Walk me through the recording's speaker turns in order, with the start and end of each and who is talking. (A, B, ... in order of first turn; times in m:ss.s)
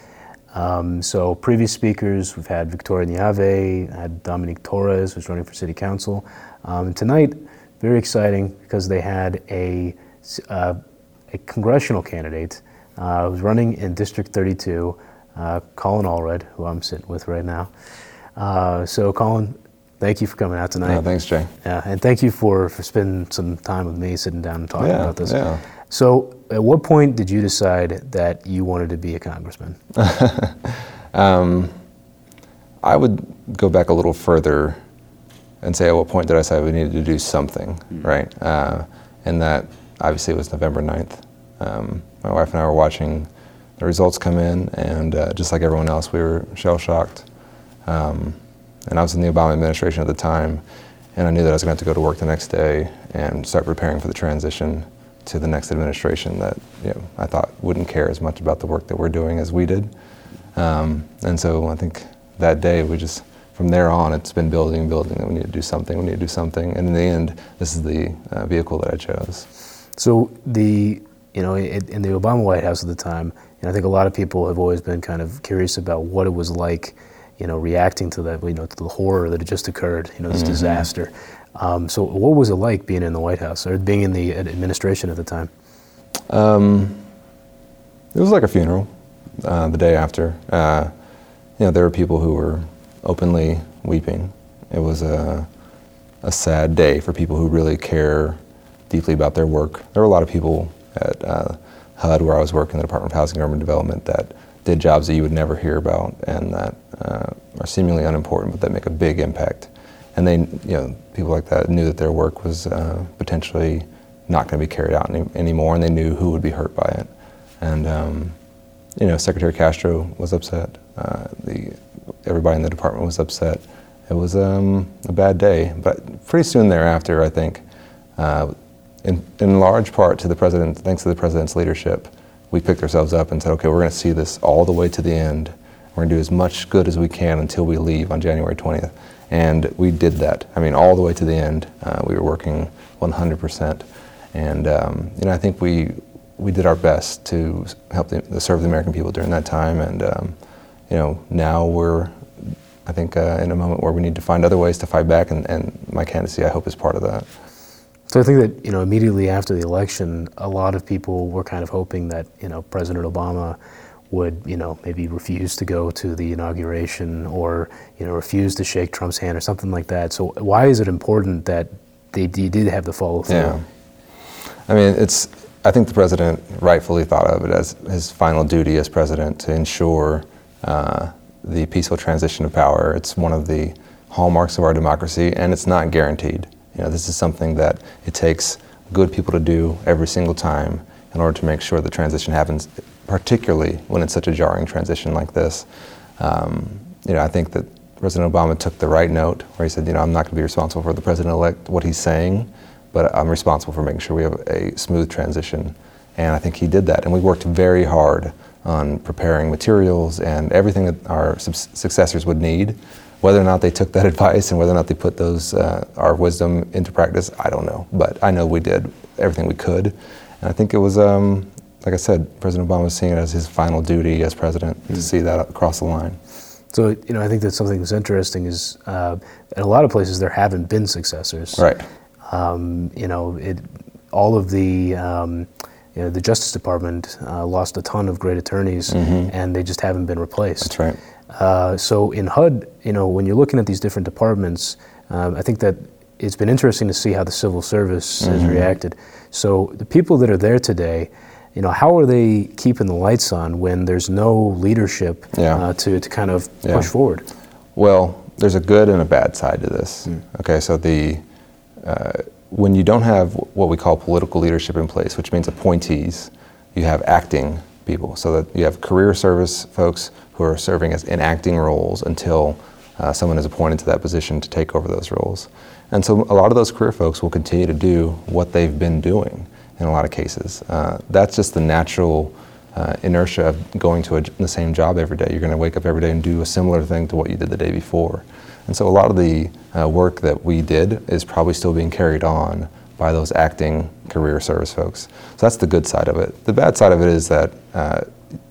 0:00.5-0:10.8 A
0:11.3-0:17.7 A
0:18.4-0:21.0 A
0:20.8-0:21.5 B
0:21.6-0:25.4 A
0:24.8-0:25.6 B
0:25.9-0:29.8 A
0:30.0-0:31.7 B
0:32.8-0:34.8 B
0:35.6-0:47.3 B
0:47.9-0:50.6 B
0:51.2-0:59.9 B
1:00.6-1:09.5 B
1:10.0-1:25.5 A
1:20.3-1:20.9 B
1:26.3-1:27.0 B
1:28.1-1:28.9 B
1:29.4-1:30.9 B
1:31.6-1:35.5 B
1:36.2-1:38.4 B
1:38.9-1:57.1 B
1:57.6-1:58.4 B
1:59.0-2:07.6 B
2:08.2-2:08.5 B
2:09.0-2:30.3 B
2:30.9-2:32.1 B
2:32.8-2:37.3 B
2:38.1-2:43.6 A
2:44.1-2:53.6 A
2:53.3-2:53.6 B
2:54.7-3:15.7 B
3:16.2-3:46.2 B
3:46.7-3:51.7 A
3:51.6-3:51.8 B
3:52.3-4:00.7 A
3:58.9-3:59.3 B
4:00.6-4:01.0 B
4:01.3-4:17.3 A
4:08.2-4:08.7 B
4:15.3-4:15.6 B
4:17.8-4:21.2 B
4:21.8-4:58.1 B